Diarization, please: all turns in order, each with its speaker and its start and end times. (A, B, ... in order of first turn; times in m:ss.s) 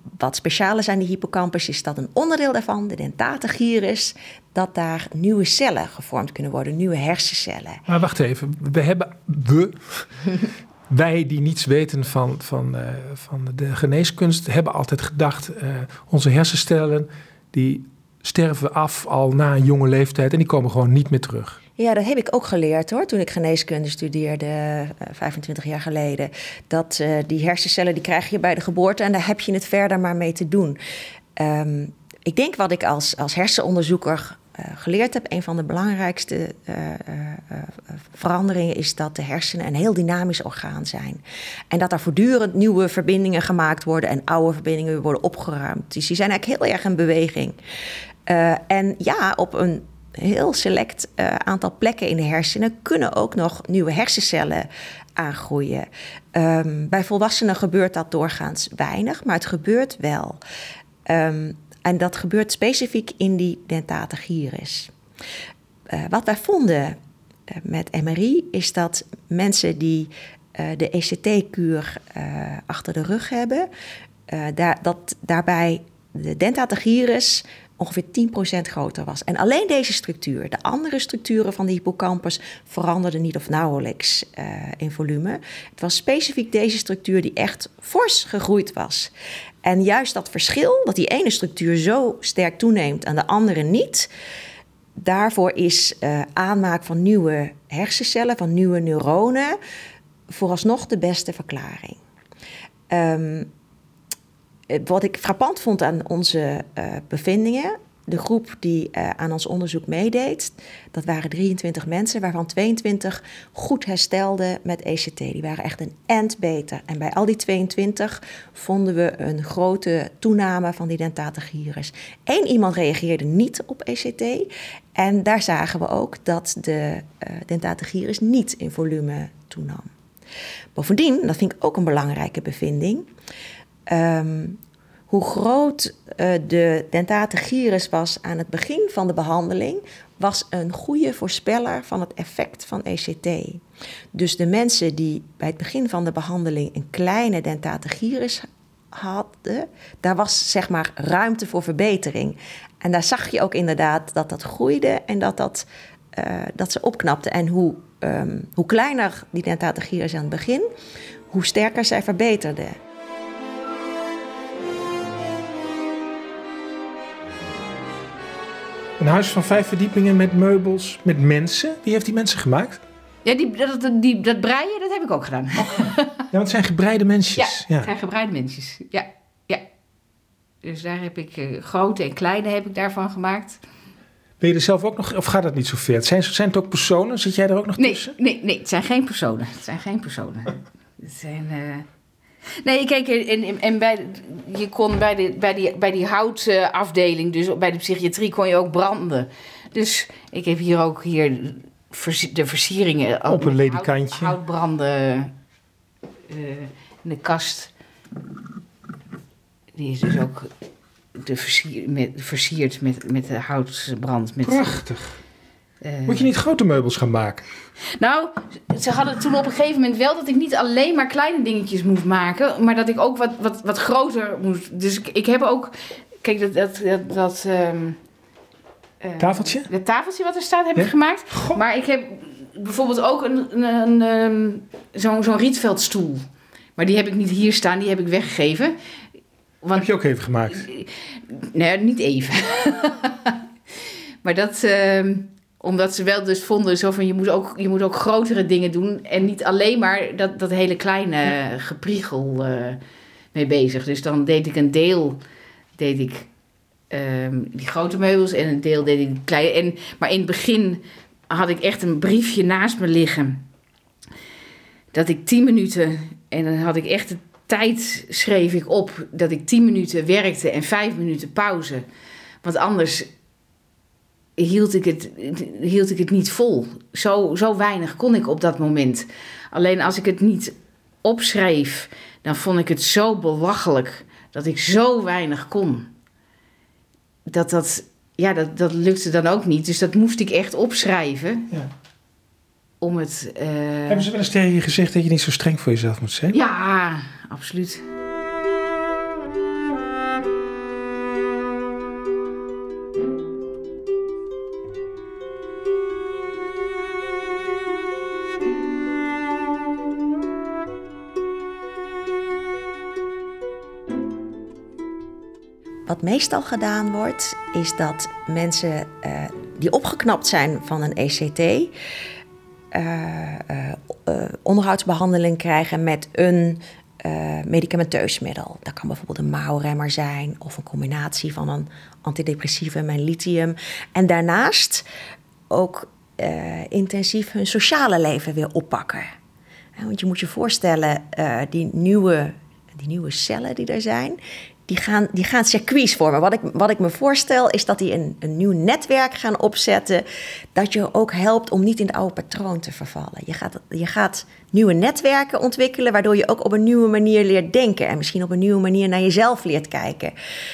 0:00.2-0:07.8 A
0:07.9-0:10.1 B
0:10.9-0:21.6 B
0:21.8-0:30.8 A
0:31.4-0:47.6 A
0:48.3-1:00.4 A
1:01.0-1:04.9 A
1:05.9-1:07.0 A
1:07.5-1:13.7 A
1:14.3-1:29.1 A
1:29.6-1:34.1 A
1:35.0-1:39.6 A
1:40.3-1:42.0 A
1:42.9-1:43.5 A
1:44.7-2:09.9 A
2:10.8-2:13.1 A
2:13.9-2:23.6 A
2:24.1-2:40.7 A
2:41.3-2:42.8 A
2:49.0-2:52.8 B
2:53.2-2:56.2 C
2:56.3-2:57.9 B
2:57.3-2:59.6 C
3:00.6-3:03.6 C
3:04.4-3:08.1 B
3:07.8-3:11.8 C
3:12.6-3:25.3 C
3:23.2-3:24.4 B
3:26.3-3:27.7 C
3:29.7-3:30.5 C
3:31.2-3:34.7 C
3:34.4-3:35.2 B
3:35.8-3:36.3 C
3:36.0-3:37.4 B
3:38.0-3:48.0 C
3:49.0-3:56.2 C
3:49.2-3:49.7 B
3:50.8-3:51.6 B
3:56.8-3:58.8 C
3:59.7-4:00.7 B
4:00.5-4:03.4 C
4:04.2-4:12.8 C
4:13.3-4:15.2 C
4:15.8-4:16.3 C
4:16.9-4:23.4 C
4:24.9-4:31.8 C
4:32.4-4:33.1 C
4:34.4-4:45.9 C
4:47.3-4:51.5 C
4:52.8-4:54.1 C
4:53.9-4:56.4 B
4:56.3-4:57.8 C
5:15.8-5:21.7 A
5:22.7-5:34.8 A
5:35.5-5:39.1 A
5:39.8-6:00.1 A